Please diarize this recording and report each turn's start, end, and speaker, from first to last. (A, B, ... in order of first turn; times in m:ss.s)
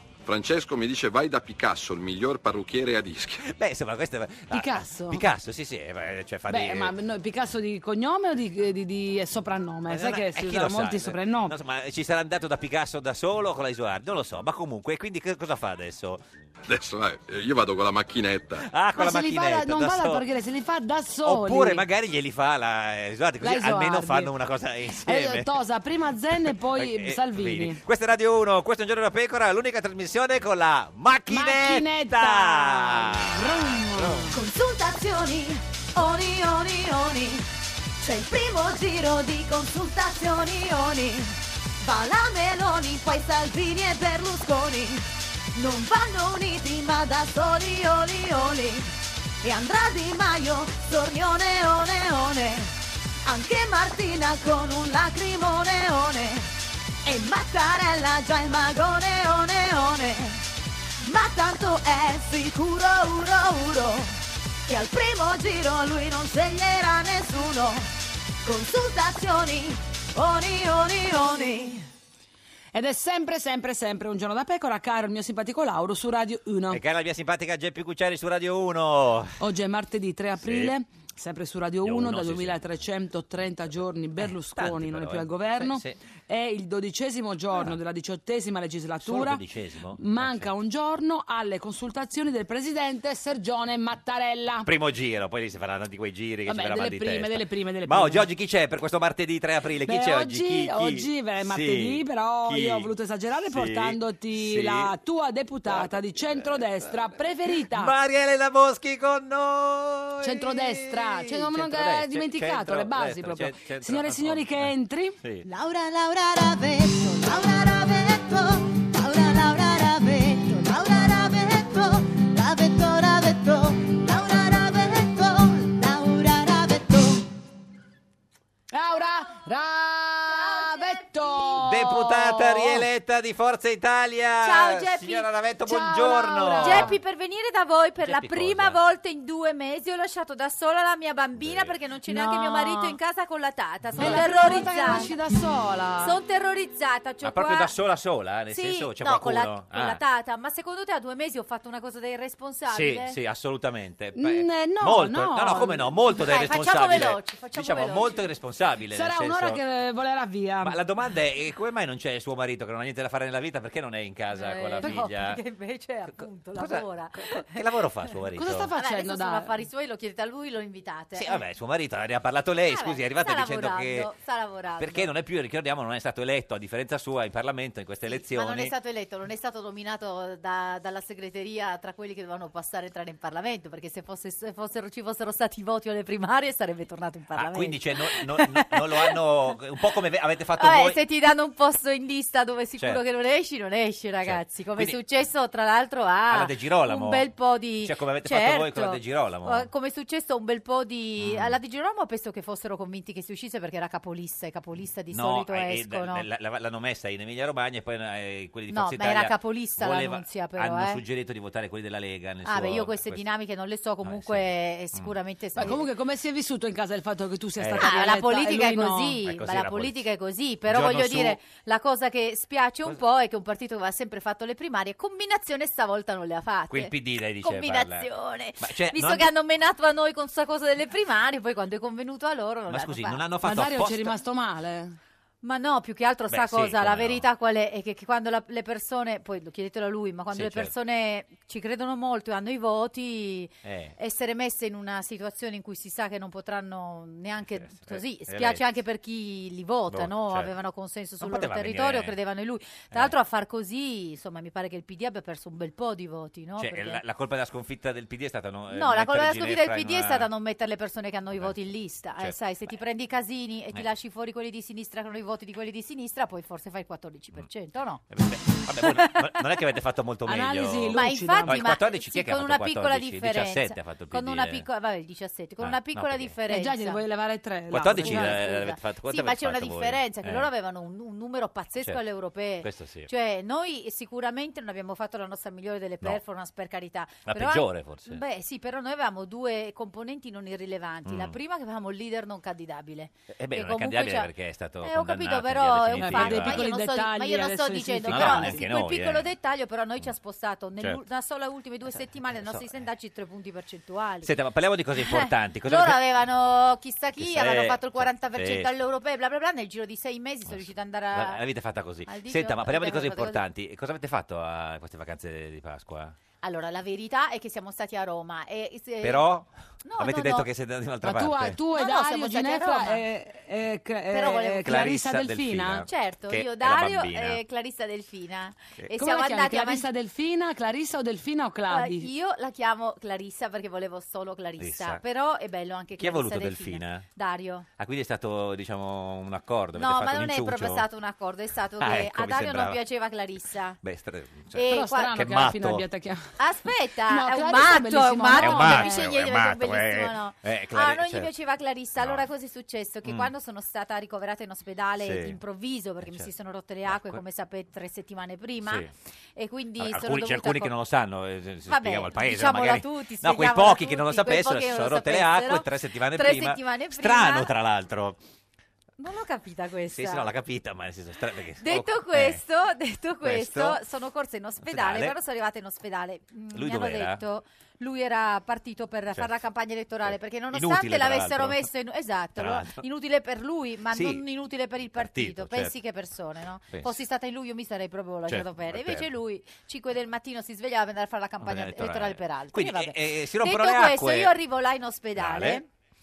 0:00.2-0:03.5 A
0:03.4-0:06.9 B
0:04.5-0:05.2 C
0:06.5-0:11.6 C
0:09.9-0:16.2 B
0:16.7-0:18.6 A
0:18.6-0:20.2 B
0:19.0-0:21.8 C
0:21.2-0:25.5 B
0:23.4-0:24.3 C
0:25.0-0:27.8 C
0:26.4-0:34.3 B
0:31.3-0:34.3 C
0:34.3-0:37.5 D
0:38.0-0:52.7 D
0:53.2-0:56.5 D
0:57.0-1:00.4 D
1:01.0-1:04.1 D
1:04.7-1:07.9 D
1:08.4-1:11.9 D
1:12.7-1:16.8 C
1:16.7-1:19.4 B
1:19.4-1:29.4 C
1:20.4-1:20.7 B
1:21.8-1:22.6 B
1:24.5-1:26.0 B
1:29.0-1:30.5 B
1:30.0-1:34.7 C
1:34.6-1:42.9 B
1:36.5-1:38.2 C
1:39.9-1:47.9 C
1:43.5-1:44.9 B
1:45.7-1:54.7 B
1:50.2-1:55.2 C
1:55.4-2:07.2 D
2:08.7-2:12.8 C
2:08.9-2:09.2 E
2:10.3-2:11.7 E
2:11.6-2:17.0 B
2:14.4-2:15.3 E
2:15.7-2:17.0 C
2:16.5-2:25.1 E
2:18.0-2:18.8 B
2:21.4-2:21.8 B
2:22.1-2:23.0 C
2:24.0-2:25.0 B
2:24.0-2:26.2 C
2:26.0-2:27.7 E
2:27.2-2:30.0 B
2:28.5-2:33.2 E
2:32.7-2:39.6 B
2:34.2-2:35.9 C
2:36.1-2:38.2 E
2:38.9-2:40.8 C
2:40.6-2:45.4 B
2:44.3-2:48.1 E
2:46.5-2:48.7 B
2:48.4-2:49.5 C
2:48.7-2:51.4 E
2:51.2-2:54.1 B
2:52.7-2:55.1 E
2:54.8-2:58.7 B
2:58.1-3:09.2 E
3:07.3-3:11.0 B
3:10.6-3:26.2 E
3:14.2-3:15.0 B
3:16.3-3:17.2 B
3:17.8-3:19.7 B
3:21.2-3:21.6 B
3:25.1-3:33.2 B
3:28.7-3:31.0 E
3:32.4-3:35.8 E
3:34.0-3:35.8 B
3:35.6-3:39.2 C
3:37.6-3:37.9 B
3:37.8-3:53.2 E
3:39.2-3:40.0 B
3:40.7-3:41.4 B
3:46.7-3:48.1 B
3:48.6-3:49.3 B
3:52.7-3:54.2 B
3:53.4-3:55.0 C
3:55.4-4:17.0 E
3:56.3-3:57.2 B
4:00.3-4:00.7 B
4:03.6-4:03.9 B
4:07.6-4:08.6 B
4:09.9-4:10.5 B
4:11.2-4:12.2 B
4:16.6-4:20.3 B
4:18.7-4:28.0 E
4:28.1-4:34.6 B
4:28.8-4:29.4 E
4:30.3-4:31.6 C
4:30.9-4:37.0 E
4:35.6-4:36.3 B
4:36.5-4:38.4 C
4:37.7-4:40.5 B
4:38.0-4:54.3 E
4:42.6-4:43.1 B
4:47.3-4:48.2 B
4:51.0-4:51.3 B
4:53.4-4:56.7 B
4:54.8-5:04.3 E
4:56.0-4:58.6 C
4:58.1-4:59.3 B
5:02.4-5:02.7 B
5:04.2-5:06.0 B
5:05.0-5:11.4 E
5:07.2-5:08.7 B
5:10.5-5:16.2 B
5:12.0-5:13.4 E
5:16.4-5:19.3 E
5:19.0-5:21.6 B
5:19.8-5:20.5 E
5:21.0-5:25.8 C
5:21.7-5:23.0 E
5:24.1-5:24.9 E
5:24.6-5:27.4 B
5:25.9-5:29.9 E
5:29.0-5:32.1 C
5:31.7-5:37.7 E
5:34.6-5:35.0 B
5:36.0-5:37.1 B
5:37.8-5:40.8 B
5:39.8-5:43.8 E
5:41.8-5:42.8 B
5:43.8-5:45.9 B
5:44.5-5:45.2 E
5:44.7-5:46.3 C
5:46.4-6:00.7 E
5:47.1-5:49.0 C
5:48.3-5:51.3 B
5:52.0-5:52.2 B
5:53.0-5:53.3 B
5:55.0-5:55.4 B
5:56.0-5:56.3 B
5:56.9-5:57.2 B
5:58.6-5:58.9 B
5:59.8-6:08.2 B
6:01.7-6:07.5 E
6:09.0-6:10.3 E
6:09.9-6:12.4 B
6:11.6-6:35.7 E
6:13.2-6:13.8 B
6:14.6-6:15.2 B
6:16.5-6:17.2 B
6:20.0-6:21.7 B
6:22.4-6:22.8 B
6:23.9-6:24.2 B
6:25.0-6:25.7 B
6:28.3-6:29.1 B
6:31.4-6:34.3 B
6:35.2-6:35.6 B